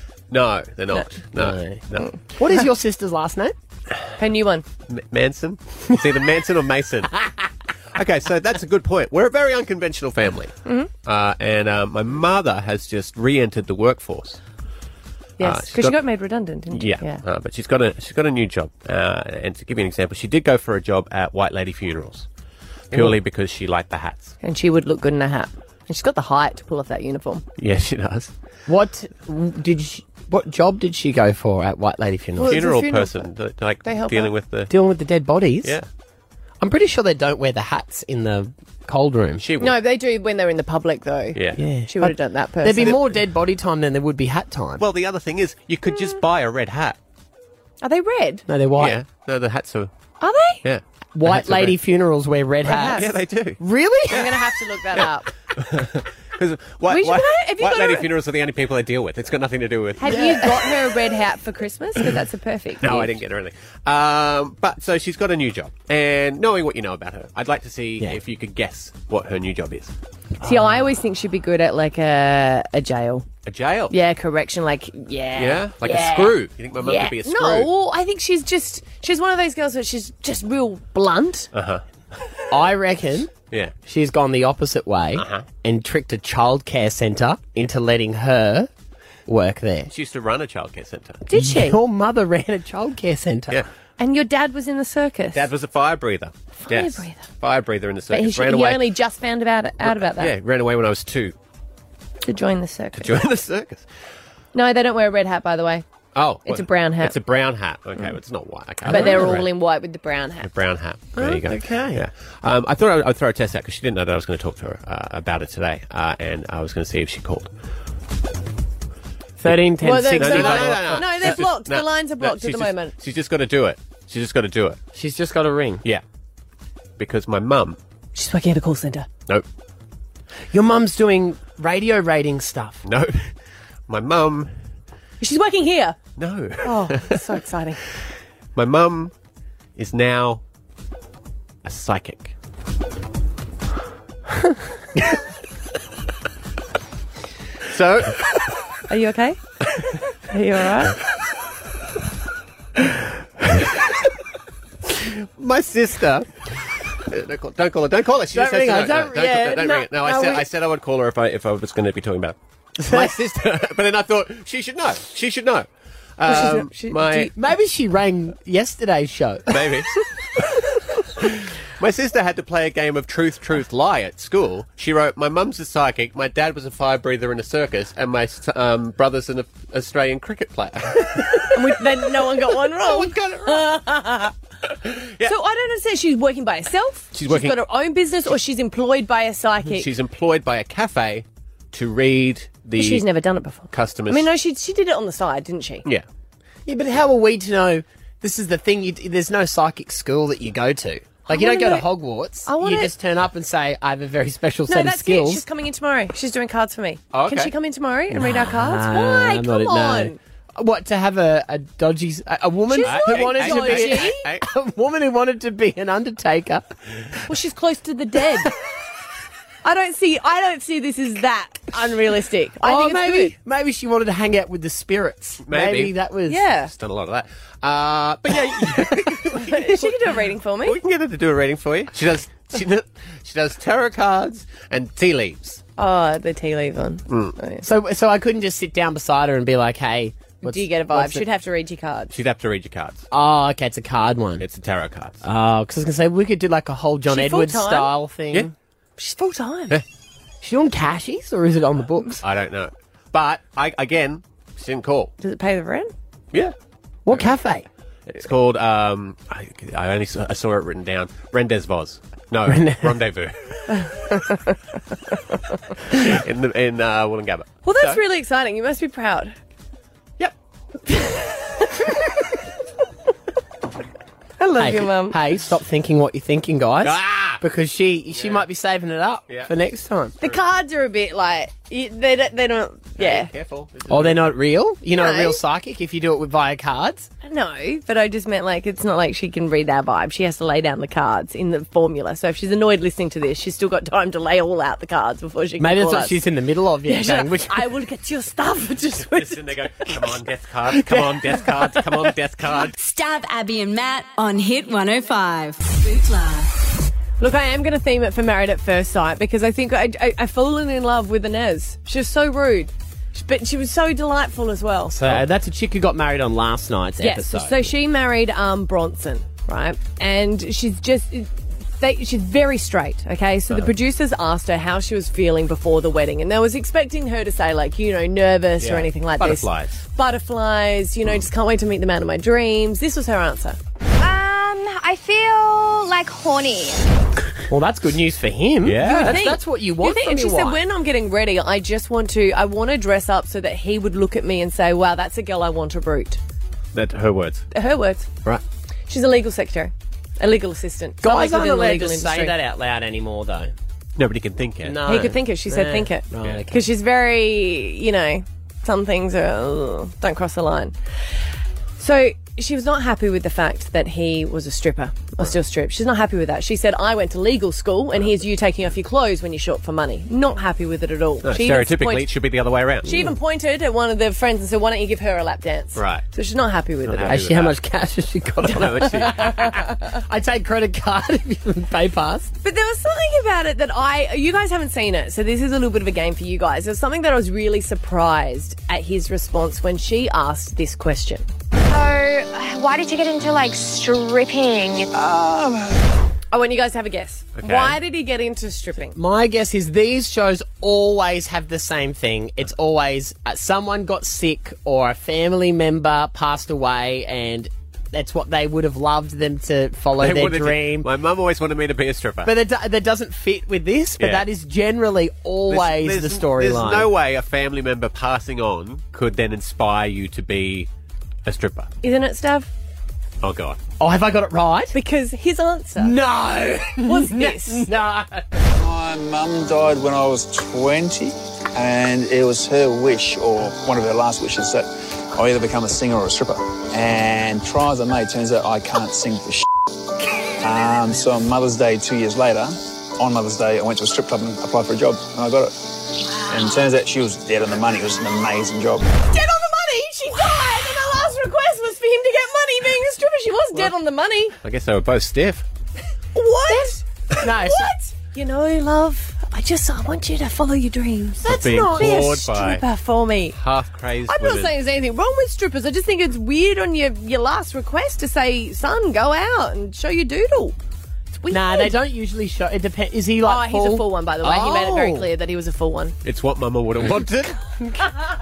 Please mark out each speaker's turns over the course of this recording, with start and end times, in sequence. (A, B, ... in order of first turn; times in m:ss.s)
0:00.3-0:02.1 A
0:01.4-0:03.5 B
0:04.2-0:04.6 C
0:04.9-0:07.1 A
0:07.9-0:14.4 A
0:10.6-0:10.9 C
0:15.4-0:17.2 C
0:15.4-0:16.0 A
0:16.7-0:22.3 A
0:22.9-0:24.3 A
0:24.4-0:27.4 C
0:27.6-0:28.3 A
0:28.7-0:32.6 B
0:32.4-0:33.3 C
0:32.4-0:34.7 A
0:33.8-0:34.3 C
0:34.7-0:35.8 B
0:36.6-0:39.4 B
0:39.4-0:39.8 A
0:39.6-0:43.0 C
0:41.6-0:44.8 B
0:42.8-0:43.1 A
0:44.8-0:47.0 A
0:47.8-0:48.4 C
0:48.5-0:49.0 B
0:48.8-0:49.9 A
0:50.2-0:50.6 C
0:50.6-0:51.7 A
0:51.1-0:53.0 B
0:52.6-0:53.1 C
0:52.8-0:53.6 A
0:53.6-0:54.4 B
0:54.1-0:55.3 C
0:54.9-1:00.7 A
0:56.9-0:58.1 C
1:00.0-1:03.1 C
1:00.0-1:00.4 B
1:02.8-1:09.9 A
1:10.4-1:13.2 C
1:10.4-1:10.8 B
1:13.4-1:13.9 A
1:13.9-1:21.5 C
1:15.4-1:17.7 A
1:21.5-1:21.8 A
1:22.5-1:23.3 B
1:23.8-1:28.7 B
1:25.2-1:25.5 A
1:29.3-1:29.9 B
1:29.9-1:31.2 A
1:31.2-1:31.8 C
1:31.3-1:33.6 B
1:34.0-1:35.5 C
1:35.3-1:39.0 A
1:36.6-1:37.2 C
1:38.1-1:40.3 C
1:39.8-1:41.4 A
1:42.2-1:43.2 C
1:42.9-1:43.8 A
1:44.5-1:45.8 C
1:46.1-1:49.5 A
1:46.4-1:47.2 C
1:48.8-1:49.4 B
1:48.8-1:50.5 C
1:50.4-1:57.5 A
1:51.2-1:52.0 B
1:59.4-2:01.0 B
1:59.4-2:04.8 A
1:59.8-2:02.9 C
2:04.9-2:05.8 B
2:07.0-2:07.8 A
2:08.1-2:09.1 C
2:10.5-2:12.8 B
2:12.8-2:13.3 A
2:13.9-2:14.5 A
2:15.2-2:16.0 C
2:16.2-2:17.3 A
2:16.6-2:17.8 C
2:18.6-2:19.1 A
2:19.8-2:20.4 A
2:21.6-2:22.3 A
2:27.6-2:28.2 A
2:28.9-2:29.6 C
2:30.3-2:31.0 C
2:34.9-2:47.3 A
2:38.3-2:40.4 B
2:42.8-2:43.1 B
2:46.2-2:47.3 C
2:47.3-2:49.7 B
2:49.5-2:49.9 A
2:51.2-3:01.8 A
3:01.5-3:04.3 C
3:02.4-3:03.8 A
3:04.8-3:05.3 A
3:05.2-3:09.9 C
3:07.1-3:07.6 A
3:09.7-3:13.0 A
3:12.8-3:15.8 C
3:13.7-3:14.3 A
3:16.6-3:25.4 B
3:21.3-3:21.9 C
3:22.4-3:22.9 C
3:24.7-3:30.2 C
3:27.1-3:27.5 A
3:28.1-3:37.2 B
3:32.7-3:34.2 C
3:32.8-3:34.4 A
3:37.3-3:38.5 C
3:39.6-3:43.3 C
3:42.6-3:46.4 B
3:45.4-3:45.9 A
3:46.3-3:46.7 C
3:46.7-3:50.0 A
3:49.3-3:50.8 C
3:50.6-3:55.6 A
3:55.8-3:57.6 C
3:57.1-3:57.4 A
3:57.6-4:01.3 B
4:00.4-4:02.1 C
4:02.1-4:03.0 A
4:03.1-4:04.4 B
4:04.4-4:05.2 A
4:05.2-4:08.5 B
4:07.1-4:07.9 C
4:09.0-4:09.8 C
4:10.4-4:12.2 B
4:12.2-4:15.1 A
4:15.2-4:15.9 C
4:17.0-4:17.6 B
4:18.1-4:23.8 A
4:22.5-4:22.9 B
4:23.8-4:24.6 C
4:25.9-4:28.0 A
4:27.6-4:29.4 C
4:30.9-4:31.6 C
4:34.4-4:35.2 C
4:34.6-4:40.2 B
4:36.8-4:37.4 A
4:38.1-4:38.4 A
4:40.2-4:43.3 C
4:43.0-4:44.3 A
4:43.9-4:47.1 B
4:44.9-4:45.4 C
4:47.2-4:56.2 C
4:55.6-4:57.7 B
4:56.8-4:59.9 C
4:59.0-5:02.7 A
5:00.7-5:01.8 B
5:02.7-5:06.5 D
5:07.2-5:15.0 C
5:14.9-5:17.7 B
5:17.0-5:33.6 C
5:28.6-5:29.8 A
5:34.0-5:36.8 E
5:37.5-5:40.6 B
5:38.6-5:39.2 A
5:38.8-5:46.2 C
5:46.7-5:47.4 A
5:47.5-5:48.1 C
5:48.9-5:52.4 C
5:51.0-5:53.5 B
5:54.0-5:55.2 A
5:54.6-5:56.6 B
5:54.8-6:00.8 C
6:01.8-6:12.1 C
6:11.2-6:13.0 A
6:12.8-6:17.2 C
6:15.7-6:16.0 A
6:16.8-6:17.6 A
6:17.0-6:19.3 B
6:18.4-6:19.6 A
6:19.0-6:19.6 C
6:19.9-6:22.3 B
6:22.4-6:31.2 C
6:31.7-6:34.9 E
6:34.9-6:35.8 F
6:36.3-6:39.0 C
6:37.4-6:37.8 A
6:38.9-6:50.9 B
6:50.0-6:52.3 A
6:52.2-6:56.9 B
6:54.0-6:54.2 A
6:55.5-7:00.7 A
7:01.2-7:01.7 A
7:01.8-7:02.5 C
7:03.2-7:03.6 A
7:03.8-7:04.7 B
7:04.7-7:06.0 C
7:05.8-7:08.4 B
7:06.8-7:07.7 C
7:08.5-7:19.4 F
7:20.4-7:28.9 F
7:29.0-7:34.4 C
7:34.4-7:35.4 A
7:36.1-7:43.4 C
7:37.2-7:37.7 B
7:41.2-7:42.6 A
7:41.3-7:42.0 B
7:43.3-7:44.5 A
7:44.0-7:50.6 C
7:51.1-7:51.8 C
7:51.3-7:55.1 B
7:53.2-7:56.0 C
7:56.0-7:57.4 A